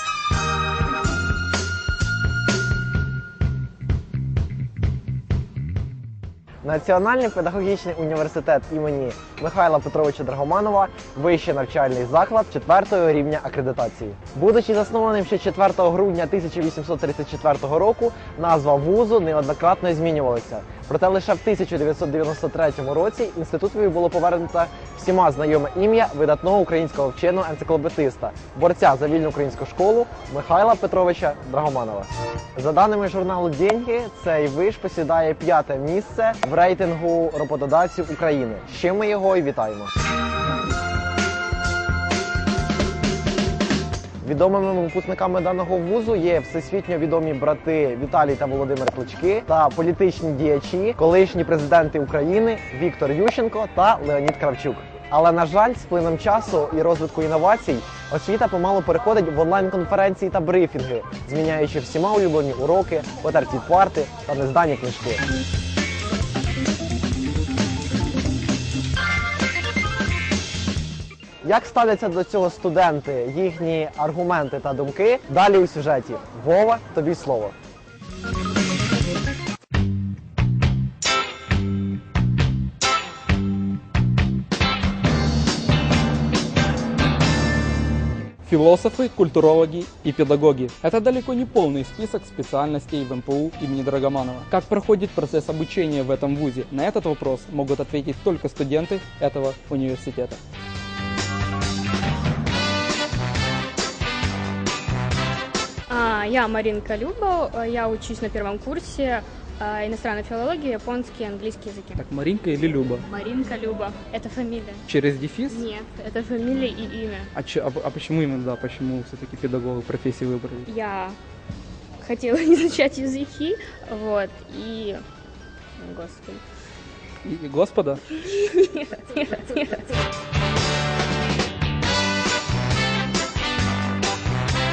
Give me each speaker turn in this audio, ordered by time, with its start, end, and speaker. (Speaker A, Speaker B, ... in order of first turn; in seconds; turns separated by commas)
Speaker A: 6.6-39.9, Speaker A: 44.2-65.2, Speaker A: 71.4-77.5, Speaker B: 88.4-100.4, Speaker C: 105.9-112.0, Speaker B: 112.0-113.0, Speaker C: 113.1-114.8, Speaker B: 114.9-115.6, Speaker C: 115.5-117.3, Speaker B: 117.3-120.7, Speaker C: 120.7-121.2, Speaker C: 122.0-125.0, Speaker C: 125.8-126.4, Speaker B: 127.2-128.0, Speaker C: 128.1-129.9